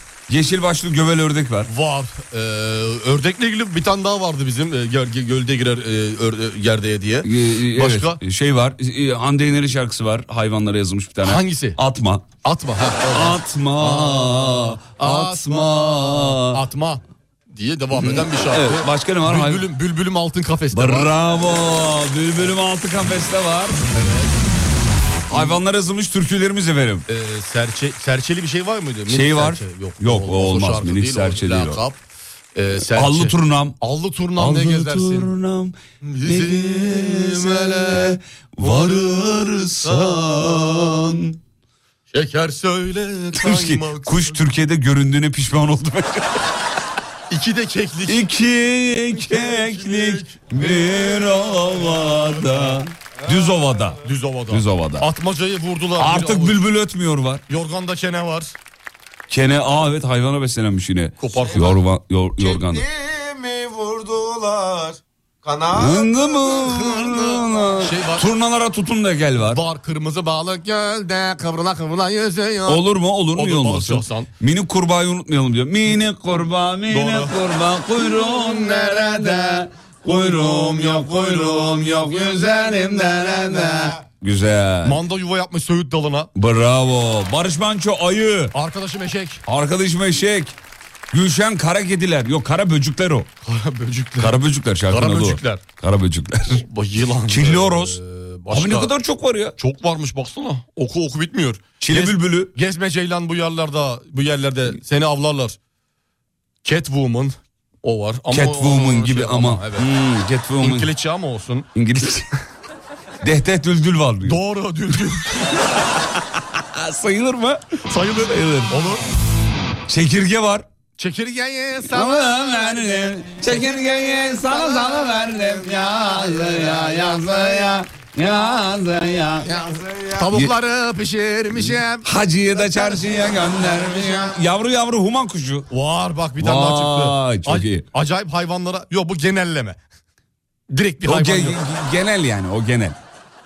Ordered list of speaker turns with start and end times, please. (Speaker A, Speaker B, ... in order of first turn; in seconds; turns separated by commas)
Speaker A: 0.3-1.7, Speaker B: 1.7-8.2, Speaker A: 7.2-12.3, Speaker B: 11.2-11.8, Speaker B: 12.4-21.1, Speaker A: 13.1-16.6, Speaker A: 17.9-19.7, Speaker A: 20.7-23.9, Speaker B: 23.9-24.3, Speaker A: 25.3-27.1, Speaker B: 25.3-25.6, Speaker B: 27.1-32.0, Speaker A: 29.1-31.8, Speaker B: 32.5-35.3, Speaker A: 32.9-33.8, Speaker A: 34.4-41.4, Speaker B: 36.0-39.3, Speaker B: 39.8-40.5, Speaker B: 42.1-44.4, Speaker A: 43.4-46.4, Speaker B: 47.3-48.2, Speaker A: 48.1-55.1, Speaker B: 49.1-50.7, Speaker C: 53.2-53.9, Speaker B: 54.0-56.6, Speaker A: 56.0-57.4, Speaker B: 57.5-58.5, Speaker A: 59.3-62.9, Speaker B: 61.2-61.8, Speaker C: 62.4-66.4, Speaker A: 65.7-69.6, Speaker B: 66.5-68.3, Speaker B: 69.5-72.8, Speaker A: 72.7-85.0, Speaker B: 73.3-74.3, Speaker B: 76.9-77.3, Speaker B: 84.8-86.3, Speaker A: 86.3-88.5, Speaker B: 88.5-89.4, Speaker A: 89.5-90.5, Speaker A: 91.1-93.3, Speaker B: 93.5-95.6, Speaker A: 94.2-96.6, Speaker B: 96.6-98.9, Speaker A: 97.3-98.0, Speaker A: 98.5-99.6, Speaker B: 99.6-105.6, Speaker A: 101.8-102.5, Speaker B: 106.6-109.9, Speaker A: 108.3-110.9, Speaker B: 110.6-111.7, Speaker A: 111.8-112.3, Speaker A: 113.2-114.4, Speaker B: 114.2-115.6, Speaker A: 116.5-117.6, Speaker B: 117.9-119.1, Speaker A: 118.2-118.7, Speaker A: 119.9-120.7, Speaker B: 121.0-123.1, Speaker A: 121.8-129.5, Speaker B: 129.4-132.1, Speaker A: 131.5-135.7, Speaker B: 135.7-139.8, Speaker A: 136.4-137.8, Speaker B: 140.7-141.6, Speaker A: 141.0-143.0